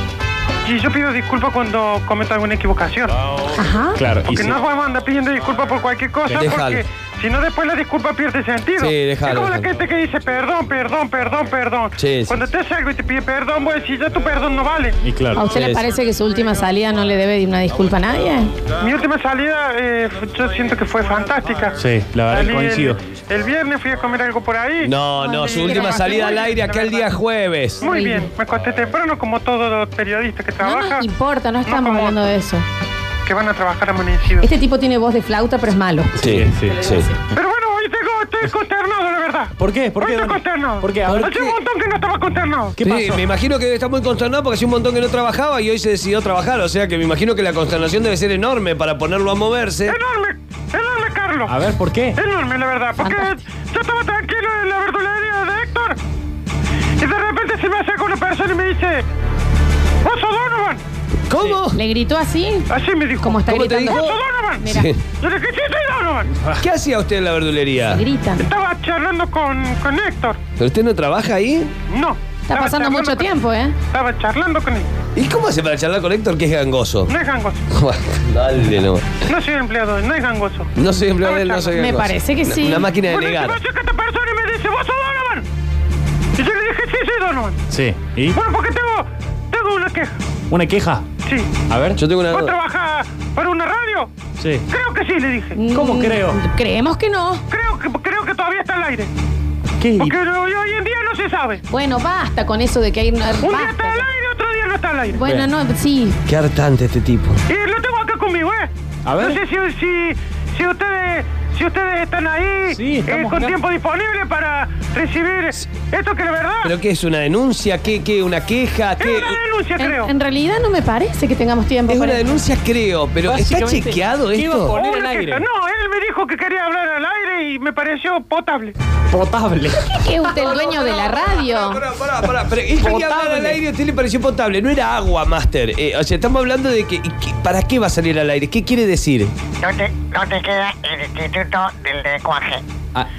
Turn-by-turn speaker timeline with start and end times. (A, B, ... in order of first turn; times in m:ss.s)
0:00.6-0:03.2 A
0:03.5-0:04.0 B
0:03.9-0:04.6 C
0:04.3-0:15.0 A
0:06.4-0:06.8 D
0:08.8-0:09.7 D
0:12.0-0:12.4 D
0:15.0-0:15.8 C
0:15.3-0:18.5 B
0:18.8-0:27.1 A
0:21.8-0:23.0 C
0:24.8-0:27.8 D
0:25.2-0:26.5 B
0:27.8-0:31.0 A
0:27.8-0:28.3 B
0:30.6-0:32.6 B
0:31.6-0:32.2 A
0:33.2-0:34.5 A
0:34.4-0:36.3 B
0:36.2-0:37.1 D
0:36.3-0:36.8 C
0:37.3-0:42.8 A
0:39.6-0:41.2 C
0:41.1-0:41.6 D
0:42.8-0:43.2 C
0:42.8-0:50.0 D
0:49.8-0:51.5 A
0:51.5-0:52.2 C
0:52.2-0:56.0 A
0:53.0-0:53.4 B
0:57.0-0:59.0 A
1:00.0-1:00.8 A
1:01.3-1:01.8 D
1:01.7-1:02.7 B
1:02.7-1:04.6 A
1:03.2-1:04.9 B
1:03.4-1:05.0 D
1:05.2-1:06.3 A
1:06.6-1:08.0 D
1:07.9-1:08.5 B
1:08.4-1:10.4 A
1:10.6-1:11.7 D
1:11.9-1:13.3 A
1:12.5-1:13.7 B
1:13.9-1:14.9 A
1:15.1-1:17.1 D
1:17.1-1:17.6 A
1:17.7-1:19.2 D
1:19.2-1:20.7 A
1:20.8-1:23.6 D
1:21.2-1:21.8 A
1:21.7-1:22.9 B
1:23.0-1:25.5 A
1:26.4-1:27.6 A
1:27.7-1:28.4 C
1:28.3-1:30.1 A
1:30.5-1:31.0 C
1:31.2-1:31.5 A
1:31.6-1:32.0 C
1:32.0-1:32.6 D
1:32.3-1:34.1 A
1:34.4-1:34.6 C
1:34.7-1:35.6 A
1:35.6-1:37.4 B
1:35.7-1:36.4 C
1:37.5-1:39.1 A
1:40.0-1:41.6 A
1:41.7-1:44.1 B
1:43.4-1:45.2 A
1:45.1-1:46.2 B
1:46.2-1:47.4 D
1:47.5-1:56.7 A
1:52.7-1:53.5 C
1:56.6-1:59.4 D
1:59.0-2:00.1 A
1:59.8-2:02.4 B
2:01.9-2:04.8 D
2:03.2-2:05.4 C
2:04.7-2:08.7 A
2:09.1-2:10.2 C
2:09.7-2:11.8 B
2:10.3-2:19.3 D
2:12.8-2:13.6 C
2:19.6-2:22.6 E